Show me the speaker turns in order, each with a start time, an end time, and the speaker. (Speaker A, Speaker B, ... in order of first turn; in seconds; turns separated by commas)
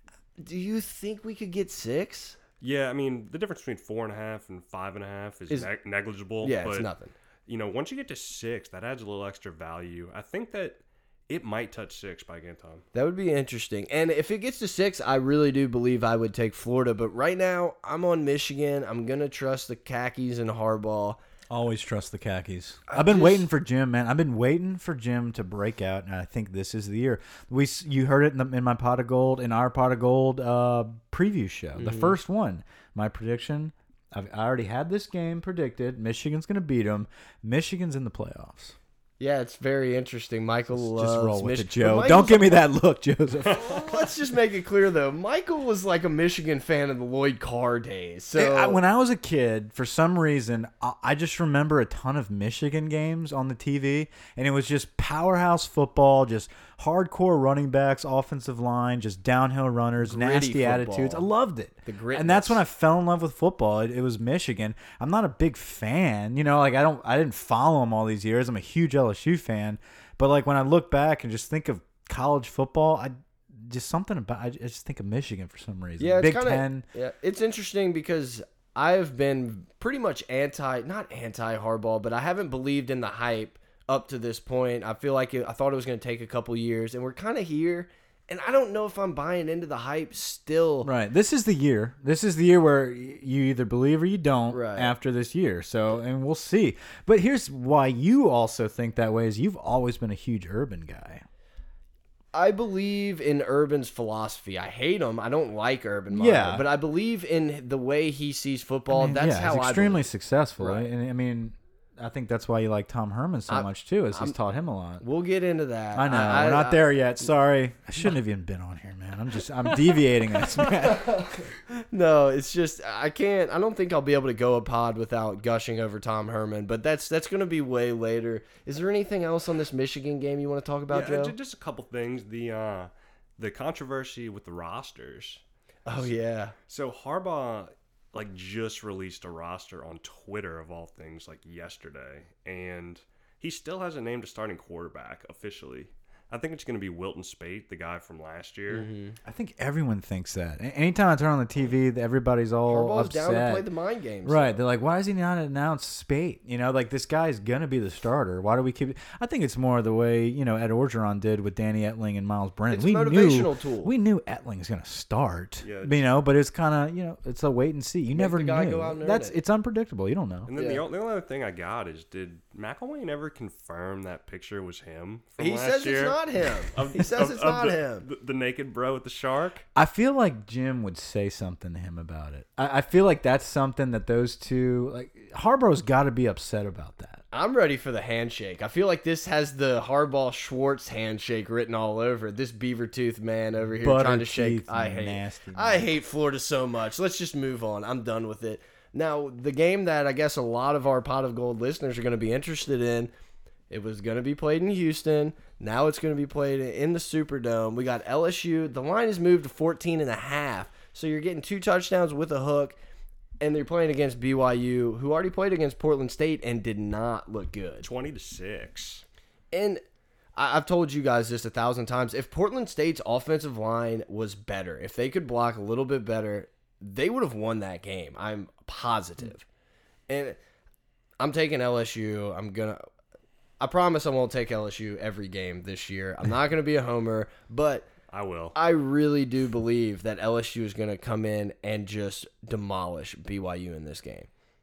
Speaker A: 0.4-2.4, Speaker B: 2.6-6.9, Speaker A: 6.4-7.1, Speaker B: 7.5-12.8, Speaker A: 12.9-21.2, Speaker C: 21.5-38.8, Speaker A: 22.9-23.5, Speaker A: 31.8-32.1, Speaker A: 39.2-42.6, Speaker C: 40.7-43.8, Speaker A: 43.6-48.8, Speaker C: 48.4-76.8, Speaker A: 60.0-61.3, Speaker A: 61.8-62.6, Speaker A: 76.0-90.9, Speaker C: 90.8-101.2, Speaker A: 94.5-94.9, Speaker A: 102.3-110.1, Speaker C: 106.1-106.6, Speaker C: 108.9-115.0, Speaker A: 110.6-110.8, Speaker A: 113.5-114.3, Speaker A: 115.0-116.8, Speaker C: 115.9-121.5, Speaker B: 119.7-120.7, Speaker A: 120.8-131.3, Speaker B: 130.9-135.4, Speaker A: 135.8-136.5, Speaker B: 136.7-148.9, Speaker A: 148.7-149.2, Speaker C: 149.2-153.7, Speaker A: 152.7-154.6, Speaker C: 154.2-170.5, Speaker A: 162.7-163.9, Speaker B: 165.6-166.0, Speaker A: 168.1-169.3, Speaker B: 170.4-179.6, Speaker A: 170.5-170.8, Speaker A: 175.4-178.1, Speaker C: 179.8-187.2, Speaker A: 187.3-203.1, Speaker C: 193.8-195.9, Speaker A: 203.7-212.8, Speaker A: 213.4-217.9, Speaker B: 217.8-219.0, Speaker A: 219.5-219.8, Speaker A: 220.3-229.4, Speaker A: 230.1-230.4, Speaker A: 231.2-232.8, Speaker A: 233.6-237.8, Speaker B: 238.1-238.6, Speaker A: 238.5-244.3